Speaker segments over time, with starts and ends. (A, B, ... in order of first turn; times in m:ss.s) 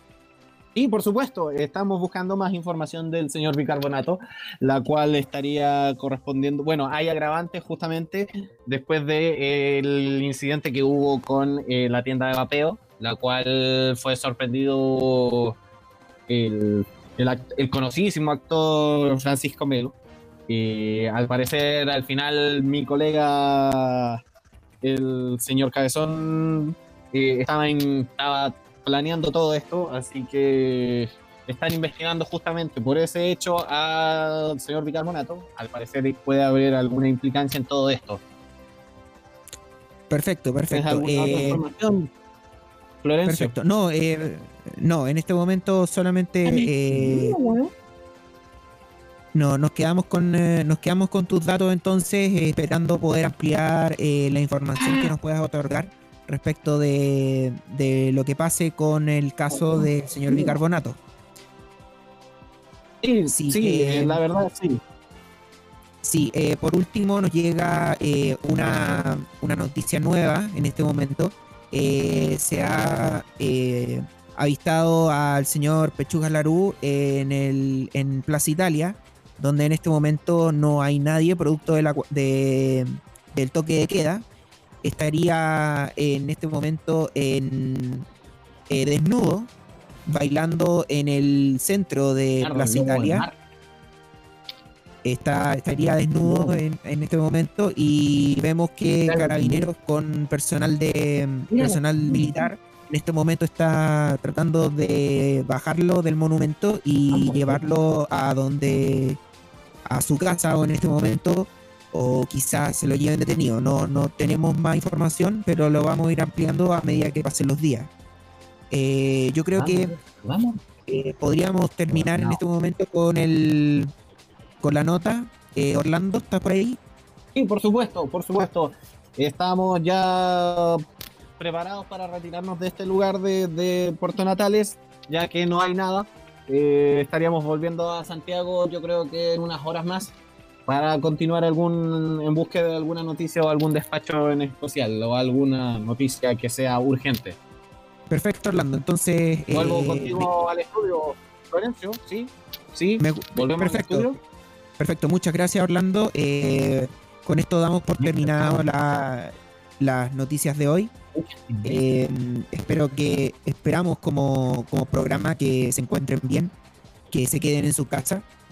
0:00.8-0:15.6 A
0:16.3-0:19.9 A
0:20.5-0:24.2 A
0:24.8-0:38.2 A
0:40.1-0:41.6 B
0:40.7-0:42.1 A
0:43.0-0:43.5 A
0:43.2-0:47.4 B
0:46.5-0:47.7 A
0:49.3-1:01.0 B
0:59.5-1:00.6 A
1:03.0-1:04.8 A
1:03.3-1:04.2 B
1:06.0-1:24.2 B
1:24.8-1:28.1 B
1:28.7-1:29.5 B
1:30.1-1:33.3 B
1:32.4-1:33.4 A
1:35.0-1:49.2 B
1:36.2-1:36.6 A
1:39.1-1:39.7 A
1:41.5-1:42.4 A
1:47.1-1:47.6 A
1:49.9-1:57.9 B
1:58.7-1:59.9 B
1:59.5-2:00.6 A
2:00.9-2:03.9 B
2:01.9-2:02.4 A
2:04.6-2:06.8 B
2:07.3-2:10.8 A
2:11.4-2:20.1 A
2:20.7-2:27.4 A
2:28.1-2:30.3 B
2:29.5-2:34.2 A
2:33.0-2:34.1 B
2:34.8-2:40.9 B
2:38.0-2:38.6 A
2:41.2-2:41.8 A
2:41.6-2:46.5 B
2:47.1-2:48.2 B